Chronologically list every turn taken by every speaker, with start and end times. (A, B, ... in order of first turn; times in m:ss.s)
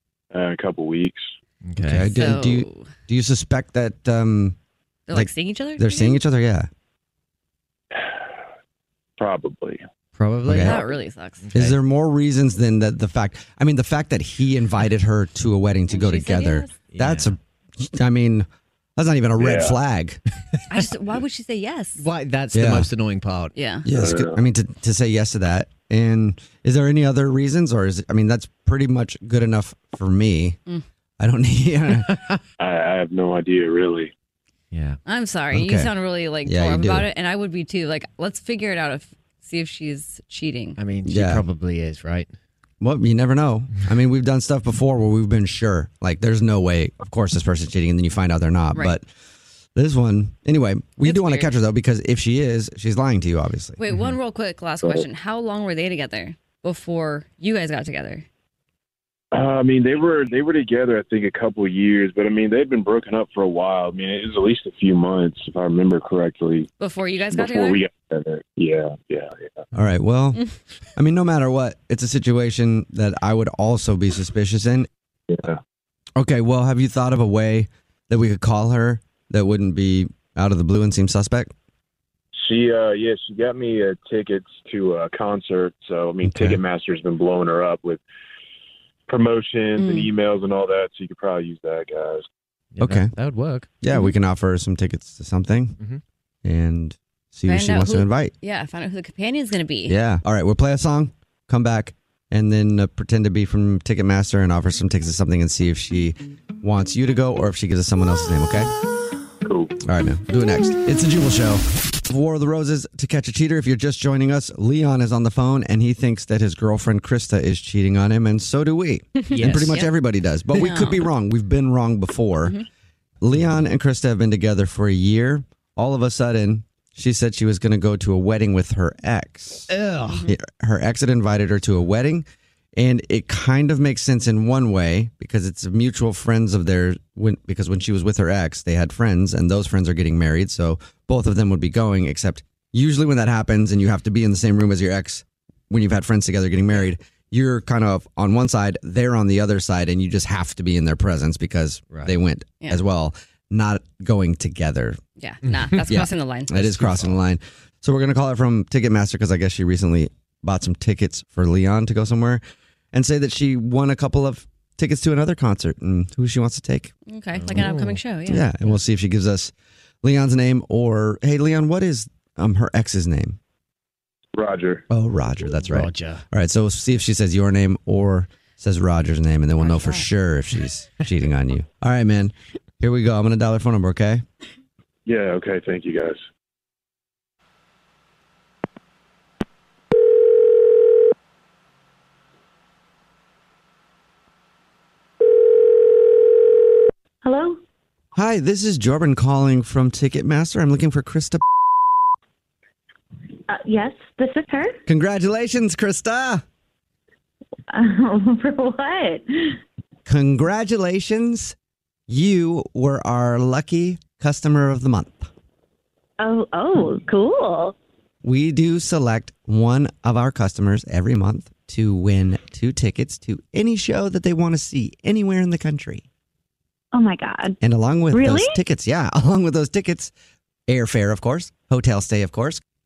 0:00.3-0:01.2 A
0:01.6-0:02.1 B
0:01.9-0:04.6 C
0:02.1-0:02.9 D
0:05.1-0:06.2 D
0:05.1-0:06.7 C
0:09.2-0:09.8 A
0:10.1-0:10.8 B
0:10.5-0:10.8 C
0:10.6-0:11.5 D
0:11.4-0:11.8 B
0:11.5-0:18.4 C
0:15.9-0:16.7 D
0:16.9-0:17.3 B
0:19.0-0:20.2 C
0:19.4-0:19.8 A
0:20.7-0:22.1 D
0:22.0-0:23.5 B
0:22.5-0:22.9 C
0:23.5-0:23.9 D
0:23.8-0:30.6 C
0:23.9-0:24.4 A
0:31.2-0:32.2 C
0:32.6-0:34.1 A
0:34.7-0:35.0 B
0:35.0-0:40.8 D
0:35.5-0:37.1 C
0:40.8-0:42.3 B
0:41.0-0:41.4 C
0:42.8-0:49.1 C
0:49.8-0:53.8 C
0:51.0-0:51.6 D
0:53.8-0:58.2 D
0:59.3-1:06.7 A
1:06.8-1:07.8 D
1:07.3-1:09.5 A
1:09.7-1:14.9 C
1:15.3-1:15.6 A
1:16.2-1:21.5 C
1:22.3-1:28.0 A
1:26.2-1:26.6 C
1:29.1-1:32.2 A
1:29.8-1:30.1 D
1:32.7-1:33.7 B
1:32.8-1:33.1 C
1:33.8-1:35.8 C
1:36.4-1:38.3 C
1:37.5-1:40.0 D
1:39.8-1:48.7 C
1:49.4-1:49.7 A
1:49.8-2:02.6 C
1:59.3-1:59.9 D
1:59.3-1:59.8 B
2:00.5-2:01.0 D
2:03.2-2:09.7 C
2:09.7-2:10.2 B
2:10.2-2:12.2 C
2:12.8-2:35.0 C
2:35.2-2:37.1 D
2:35.5-2:35.8 B
2:35.9-2:42.4 C
2:42.9-2:46.9 C
2:47.1-2:48.8 D
2:47.5-2:48.0 B
2:48.2-2:49.5 C
2:50.0-2:53.4 C
2:54.3-2:54.8 A
2:54.9-3:04.2 C
2:55.7-2:56.2 B
2:59.6-3:00.1 D
3:05.0-3:06.2 A
3:17.2-3:17.6 E
3:18.1-3:21.4 C
3:23.5-3:24.8 E
3:24.9-3:26.4 C
3:27.7-3:29.6 E
3:30.0-3:31.5 C
3:32.1-3:35.3 C
3:36.2-3:37.7 E
3:38.2-3:46.0 C
3:46.9-3:47.6 E
3:47.6-3:50.1 C
3:48.1-3:48.6 E
3:50.7-3:52.6 C